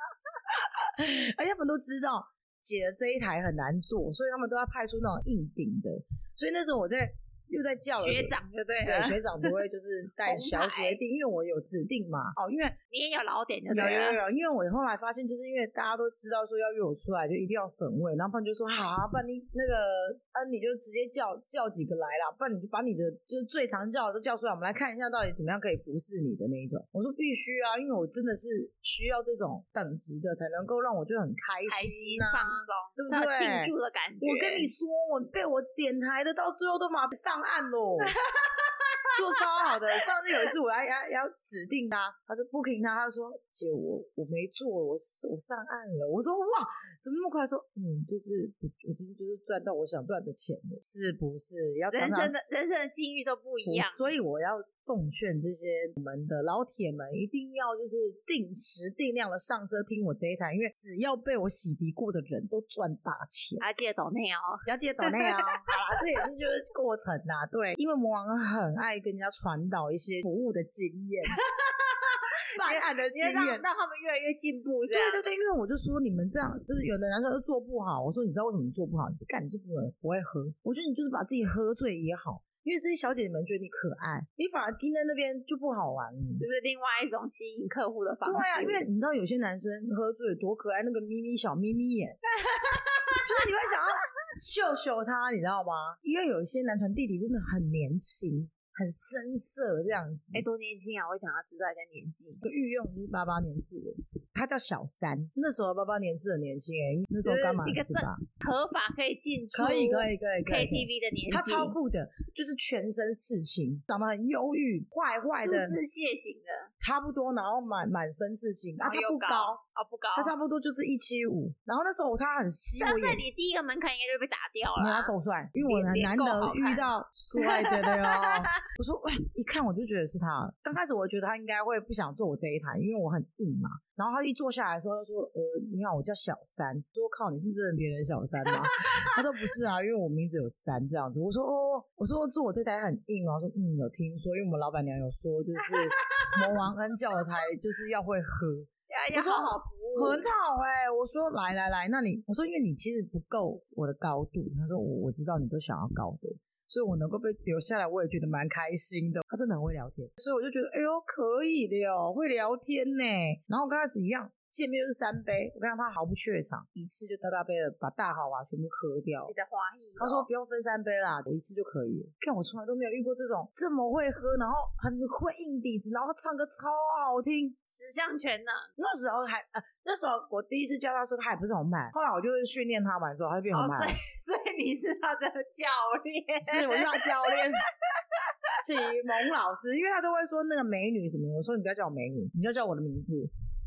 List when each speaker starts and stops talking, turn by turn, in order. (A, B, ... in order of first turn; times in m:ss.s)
0:00.5-0:12.8 A
0:08.0-0:09.6 B
0:10.2-0:11.0 B
0:12.9-0:14.2 B
0:13.7-0:38.2 A
0:31.7-0:34.7 B
0:38.2-0:40.2 B
0:39.1-0:52.3 A
0:51.9-0:54.1 B
0:53.7-1:03.6 A
1:03.6-1:06.0 B
1:04.7-1:11.4 A
1:11.3-1:15.2 B
1:12.5-1:13.6 A
1:14.9-1:26.4 A
1:26.4-1:28.8 B
1:28.2-1:32.2 A
1:32.4-1:33.5 B
1:33.2-1:40.4 A
1:40.3-1:42.4 B
1:42.4-1:48.2 A
1:47.2-1:51.8 B
1:49.5-1:55.8 A
1:55.3-1:56.7 B
1:56.8-1:59.6 A
1:58.8-2:00.3 B
2:00.1-2:03.2 A
2:02.8-2:05.1 B
2:04.8-2:49.3 A
2:05.7-2:08.6 B
2:18.4-2:19.2 B
2:25.6-2:26.5 B
2:28.9-2:30.3 B
2:49.3-2:50.3 B
2:50.0-2:57.6 A
2:57.7-2:58.7 B
2:58.8-3:04.0 A
3:03.5-3:07.5 B
3:06.4-3:07.6 A
3:08.6-3:13.3 A